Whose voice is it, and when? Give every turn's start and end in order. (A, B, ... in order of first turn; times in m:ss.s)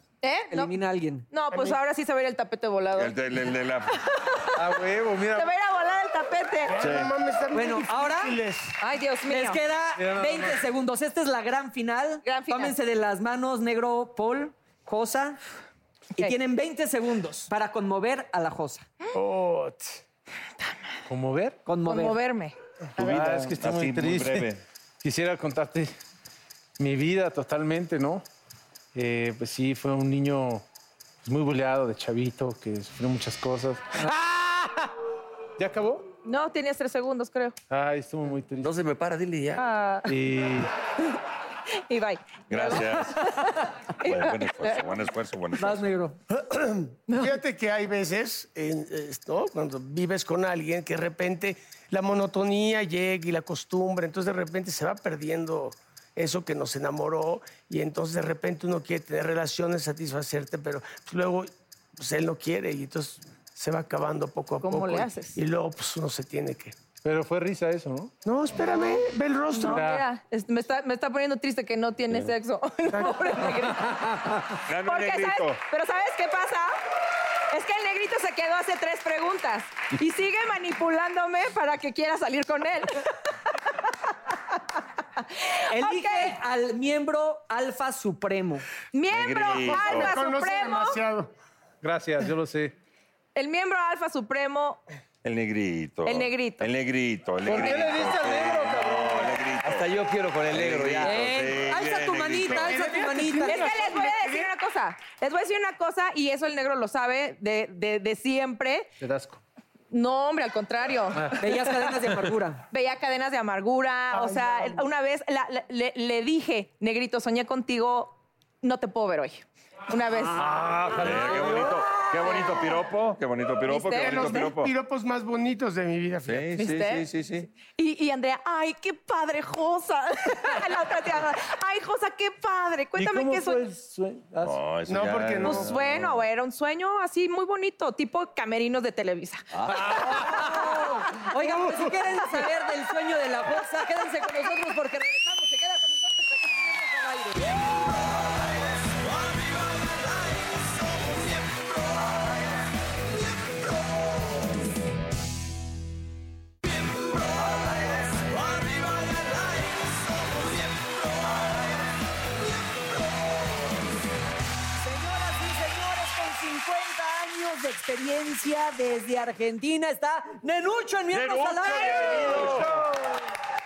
0:00.2-0:00.7 A
0:00.5-0:01.2 B
0:01.3-0:03.2 A
0:02.9-0:04.0 C
0:04.0-0:06.8 A
0:04.6-0:05.5 D
0:06.7-0:08.8 E
0:06.8-0:07.1 C
0:07.5-0:08.4 B
0:08.8-0:09.6 A
0:09.3-0:15.4 B
0:10.0-0:10.6 D
0:12.2-0:12.8 A
0:16.2-0:18.9 B
0:19.1-0:20.0 E
0:21.1-0:21.6 D
0:21.7-0:22.2 B
0:21.8-0:22.6 A
0:23.0-0:26.0 D
0:23.0-0:24.6 C
0:26.8-0:28.2 D
0:29.0-0:30.6 D
0:31.2-0:34.9 D
0:35.6-0:36.1 D
0:36.2-0:37.6 A
0:37.7-0:38.7 D
0:38.6-0:39.6 F
0:39.6-0:40.1 A
0:40.1-0:40.7 D
0:41.9-0:45.0 A
0:42.5-0:43.4 C
0:44.0-0:45.9 C
0:45.6-0:46.2 B
0:46.3-1:06.8 E
0:47.1-0:47.4 A
1:04.6-1:05.4 A
1:07.0-1:08.1 D
1:08.2-1:09.9 E
1:08.6-1:09.0 A
1:09.5-1:16.8 A
1:09.7-1:10.0 D
1:12.9-1:13.5 E
1:14.7-1:15.6 C
1:17.5-1:23.3 A
1:25.2-1:26.4 A
1:25.7-1:28.7 B
1:28.9-1:31.0 A
1:29.1-1:30.1 C
1:29.7-1:31.3 E
1:31.8-1:32.7 D
1:33.4-1:34.8 A
1:35.2-1:39.9 C
1:36.0-1:36.7 A
1:37.4-1:39.4 D
1:39.6-1:41.3 F
1:40.5-1:42.9 C
1:41.0-1:43.7 B
1:42.7-1:44.5 E
1:43.4-1:48.9 A
1:49.0-1:49.4 D
1:49.9-1:51.9 A
1:51.4-1:52.6 B
1:52.7-2:02.8 A
1:54.1-1:54.8 E
2:00.4-2:01.5 D
2:01.0-2:04.7 C
2:03.7-2:04.5 A
2:03.9-2:06.6 E
2:06.2-2:07.5 C
2:06.6-2:07.1 A
2:07.6-2:13.7 A
2:13.0-2:14.6 D
2:14.4-2:16.2 C
2:14.9-2:15.8 E
2:15.4-2:21.2 A
2:19.8-2:21.0 D
2:20.0-2:27.5 B
2:21.6-2:21.9 D
2:29.3-2:31.6 F
2:37.6-2:41.4 F
2:44.8-2:52.7 B
2:51.1-2:52.7 C
2:51.9-2:52.9 D